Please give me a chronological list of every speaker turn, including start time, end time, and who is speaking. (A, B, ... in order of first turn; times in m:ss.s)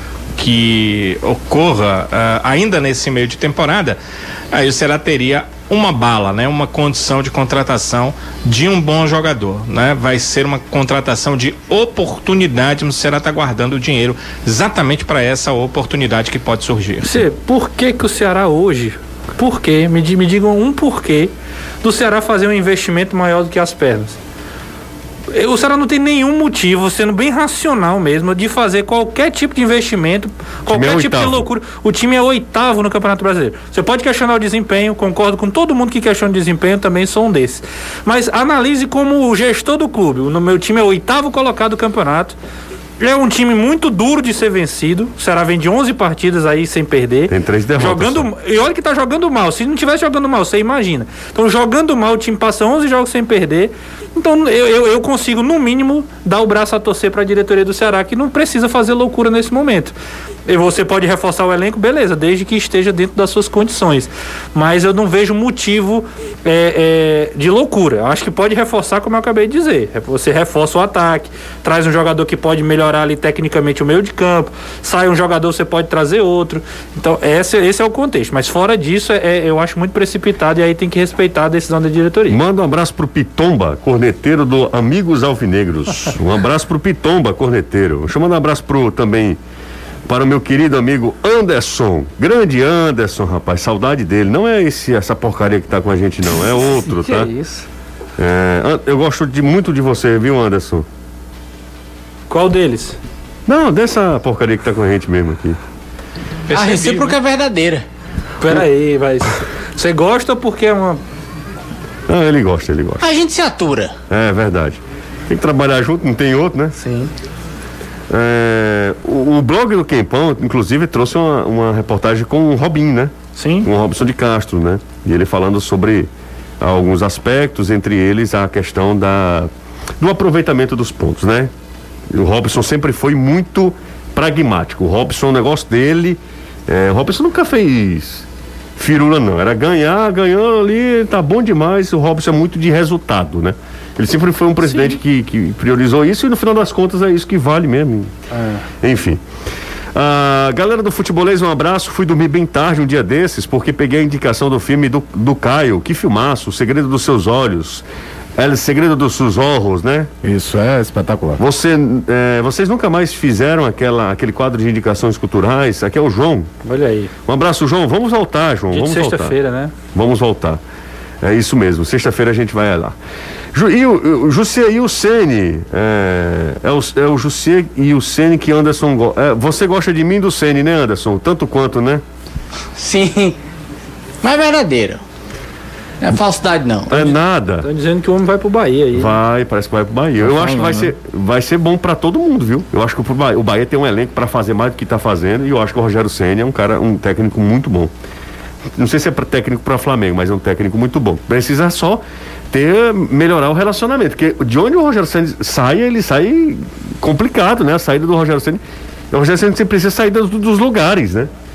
0:00.3-0:04.0 A
0:04.5-0:17.2 A
0:17.0-0:24.2 B
0:25.3-0:42.3 B
0:30.7-0:31.5 C
0:43.0-1:00.0 B
0:47.3-0:48.2 C
1:00.5-1:22.4 B
1:22.3-1:29.4 C
1:30.0-1:37.3 C
1:36.6-1:37.6 B
1:38.2-1:40.8 C
1:42.3-1:43.0 B
1:43.4-1:45.6 C
1:46.5-1:47.2 A
1:46.5-1:47.8 D
1:48.4-1:51.0 B
1:52.1-1:53.0 C
1:53.0-1:53.9 D
1:54.1-1:56.8 C
1:56.8-1:57.1 B
1:58.1-2:06.1 C
2:03.4-2:03.7 B
2:06.6-2:11.5 C
2:12.1-2:28.1 C
2:24.6-2:25.0 B
2:28.3-2:28.6 B
2:28.8-2:29.2 C
2:29.9-2:37.8 C
2:38.4-2:40.1 C
2:40.2-2:41.4 E
2:41.4-2:46.5 C
2:46.6-2:47.1 B
2:47.3-2:49.4 C
2:48.7-2:49.7 B
2:49.9-2:50.6 C
2:51.2-2:53.0 C
2:53.5-3:02.0 C
3:02.8-3:03.4 D
3:04.2-3:05.0 D
3:06.0-3:07.1 D
3:06.9-3:07.7 C
3:07.0-3:09.2 B
3:08.9-3:17.9 C
3:10.2-3:10.9 E
3:18.7-3:31.3 C